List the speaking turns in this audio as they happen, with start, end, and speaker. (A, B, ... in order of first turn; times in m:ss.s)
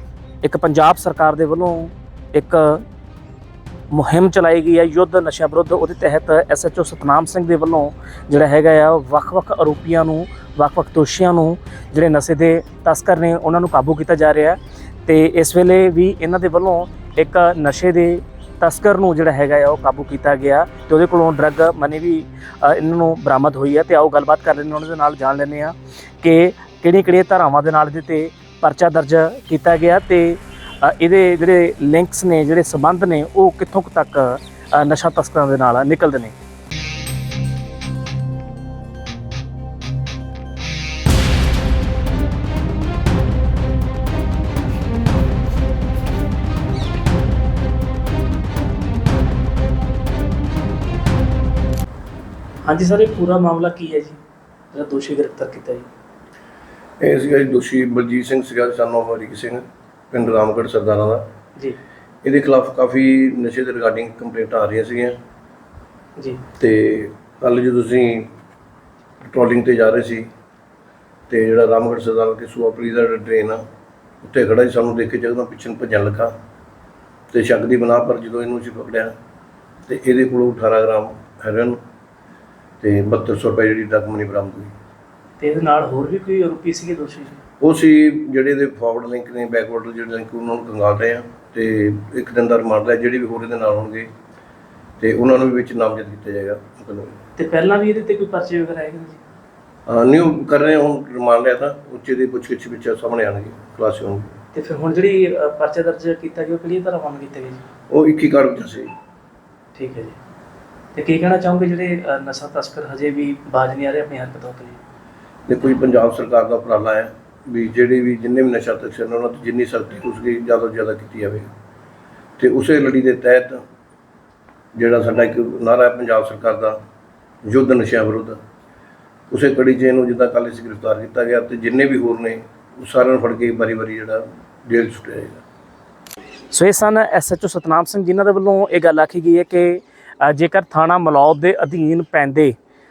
0:00.4-0:02.8 A
0:03.9-0:36.4 A
0:52.6-0:54.2 A
0:54.7-0:55.9 A
0:57.0-1:01.3 B
1:02.2-1:05.2 B
1:06.2-1:06.4 A
1:06.6-1:08.3 B
1:09.2-1:10.3 B
1:11.3-1:13.6 B
1:14.2-1:16.3 B
1:17.3-1:19.1 B
1:19.9-1:21.8 B
1:22.8-1:24.7 B
1:25.4-1:27.4 A
1:27.6-1:34.1 B
1:35.0-1:37.2 B
1:37.4-1:39.2 A
1:39.9-1:44.4 B
1:44.5-1:47.6 A
1:47.9-1:48.9 B
1:49.8-1:50.2 A
1:51.0-1:54.8 A
1:55.5-2:01.5 B
2:02.4-2:03.6 B
2:04.7-2:06.8 B
2:07.4-2:08.4 B
2:09.3-2:15.4 B
2:16.5-2:22.6 A